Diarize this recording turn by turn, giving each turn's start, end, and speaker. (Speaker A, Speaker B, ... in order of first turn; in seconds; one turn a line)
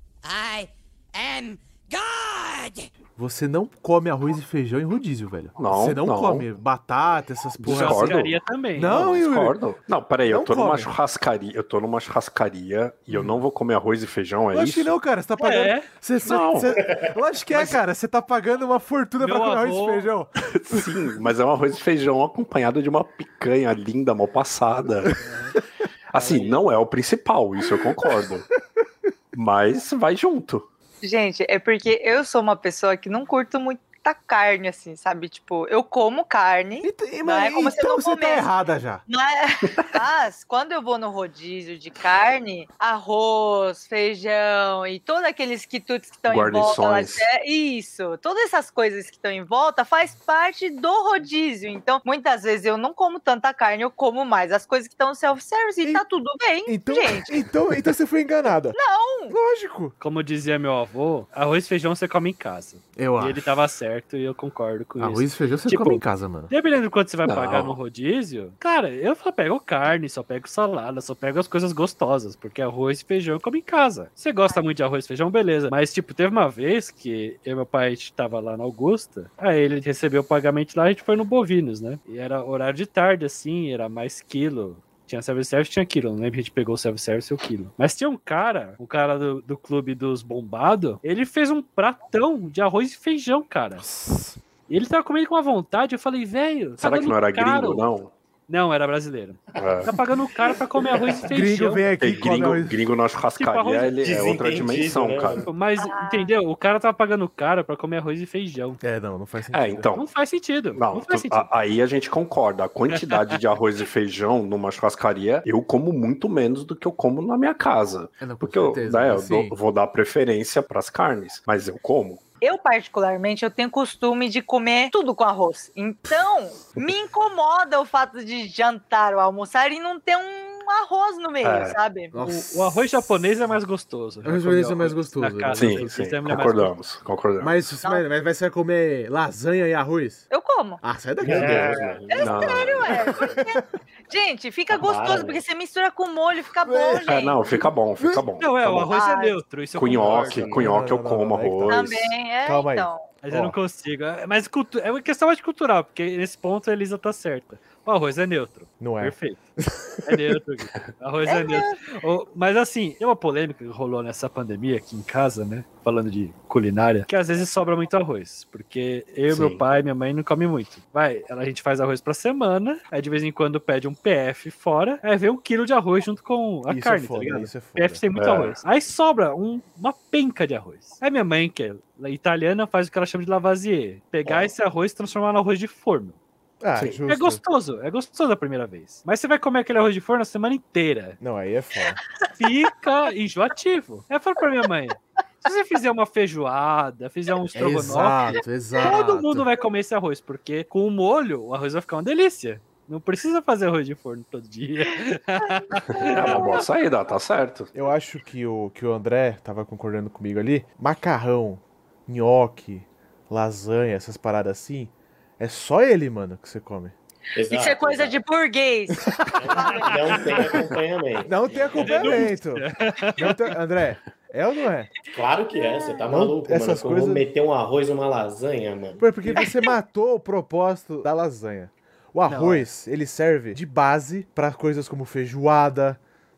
Speaker A: 0.2-2.9
Speaker B: 3.1-8.2
Speaker C: 5.6-6.5
Speaker C: 7.6-8.3
Speaker D: 7.6-9.0
Speaker B: 8.7-9.6
Speaker C: 8.9-14.9
Speaker B: 10.2-10.9
Speaker B: 13.1-13.4
Speaker B: 14.5-21.1
Speaker D: 15.4-15.9
Speaker C: 16.2-16.8
Speaker E: 16.8-17.1
Speaker D: 17.5-17.8
Speaker D: 19.2-20.1
Speaker C: 20.4-25.2
Speaker D: 25.2-25.6
Speaker C: 26.1-28.5
Speaker D: 26.1-26.6
Speaker C: 29.3-30.6
Speaker F: 31.0-38.5
Speaker B: 36.8-39.0
Speaker F: 39.1-57.4
Speaker C: 46.3-47.2
Speaker B: 56.6-58.8
Speaker F: 58.7-59.3
Speaker B: 59.3-59.9
Speaker D: 60.0-93.8
Speaker B: 63.0-63.5
Speaker B: 65.0-66.5
Speaker C: 67.2-67.8
Speaker B: 93.8-94.4
Speaker D: 94.7-97.8
Speaker C: 96.8-98.1
Speaker D: 98.5-101.8
Speaker C: 99.6-100.0
Speaker B: 101.3-102.8
Speaker C: 102.0-105.4
Speaker D: 103.3-104.0
Speaker E: 104.0-105.5
Speaker D: 105.5-108.8
Speaker F: 105.8-106.3
Speaker B: 108.8-109.9
Speaker C: 109.5-110.0
Speaker D: 109.9-111.5
Speaker C: 110.8-122.2
Speaker D: 112.9-113.4
Speaker B: 118.2-119.6
Speaker F: 122.4-132.1
Speaker C: 131.4-131.8
Speaker B: 132.1-132.9
Speaker D: 132.2-136.8
Speaker B: 134.2-136.0
Speaker C: 135.5-137.5
Speaker B: 137.4-140.3
Speaker F: 140.3-140.8
Speaker B: 140.8-141.8
Speaker E: 141.2-143.3
Speaker F: 142.1-147.4
Speaker C: 142.2-143.1
Speaker B: 143.1-143.6
Speaker E: 144.7-145.4
Speaker B: 146.6-148.3
Speaker C: 147.0-148.9
Speaker D: 148.4-150.4
Speaker F: 148.9-149.3
Speaker C: 149.7-152.1
Speaker E: 149.8-150.7
Speaker B: 150.5-153.6
Speaker F: 151.7-153.1
Speaker D: 153.2-159.4
Speaker B: 158.8-160.3
Speaker D: 160.0-186.2
Speaker F: 161.2-161.8
Speaker C: 169.3-169.6
Speaker B: 176.7-178.0
Speaker C: 178.2-178.6
Speaker E: 184.2-184.5
Speaker B: 186.6-187.4
Speaker D: 187.1-191.2
Speaker B: 191.2-192.0
Speaker D: 192.3-206.6
Speaker B: 197.5-199.5
Speaker F: 205.4-206.5
Speaker C: 205.9-207.7
Speaker B: 207.7-216.9
Speaker E: 217.3-218.2
Speaker F: 217.5-220.2
Speaker E: 219.3-222.3
Speaker B: 221.2-224.9
Speaker D: 221.8-223.5
Speaker E: 225.1-229.4
Speaker F: 225.6-226.0
Speaker B: 226.1-227.2
Speaker B: 229.0-236.0
Speaker F: 229.3-229.7
Speaker D: 232.3-232.7